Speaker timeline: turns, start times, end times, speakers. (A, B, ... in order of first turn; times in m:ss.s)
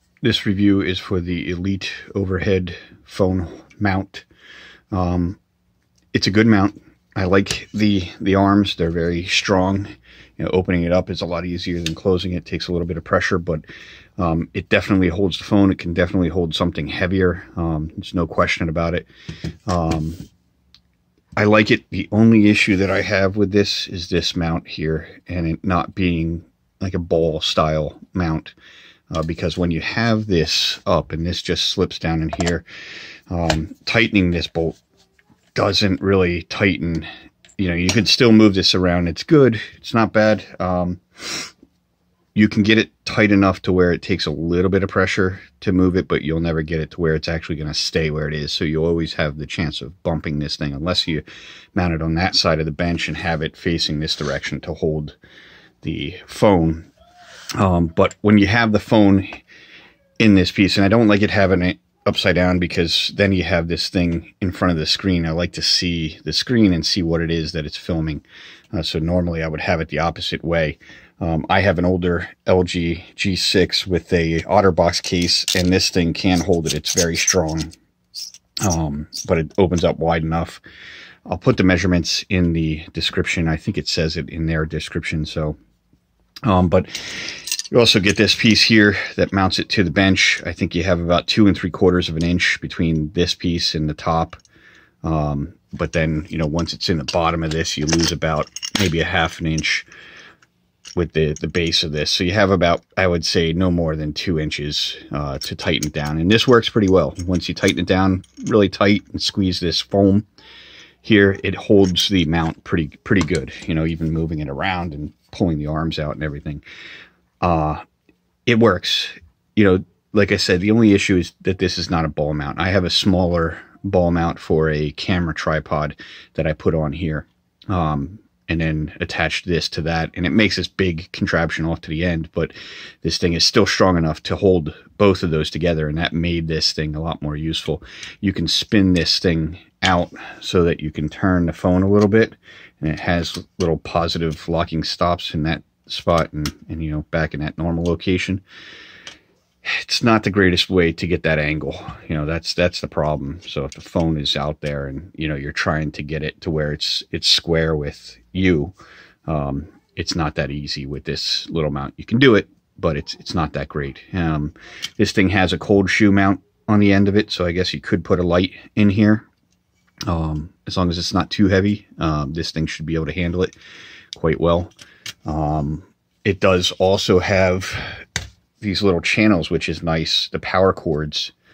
0:00.2-0:04.2 A
0:04.9-0:05.4 A
0:06.1-0:13.6 A
0:14.2-0:19.1 A
0:19.7-0:20.2 A
0:21.4-0:28.5 A
0:29.1-0:32.6 A
0:33.3-0:34.8 A
0:35.5-0:37.1 A
0:37.6-0:41.5 A
0:42.3-0:51.2 A
0:51.7-0:55.2 A
0:55.8-0:56.9 A
0:57.6-0:59.4 A
1:00.2-1:17.7 A
1:18.6-1:20.6 A
1:21.3-1:25.6 A
1:26.4-1:34.4 A
1:35.0-1:39.9 A
1:41.0-1:50.2 A
1:51.0-1:56.6 A
1:57.4-1:57.8 A
1:58.4-2:28.4 A
2:29.6-2:38.7 A
2:39.3-2:49.2 A
2:50.1-2:53.5 A
2:54.1-2:54.7 A
2:55.2-2:58.0 A
2:58.6-3:01.3 A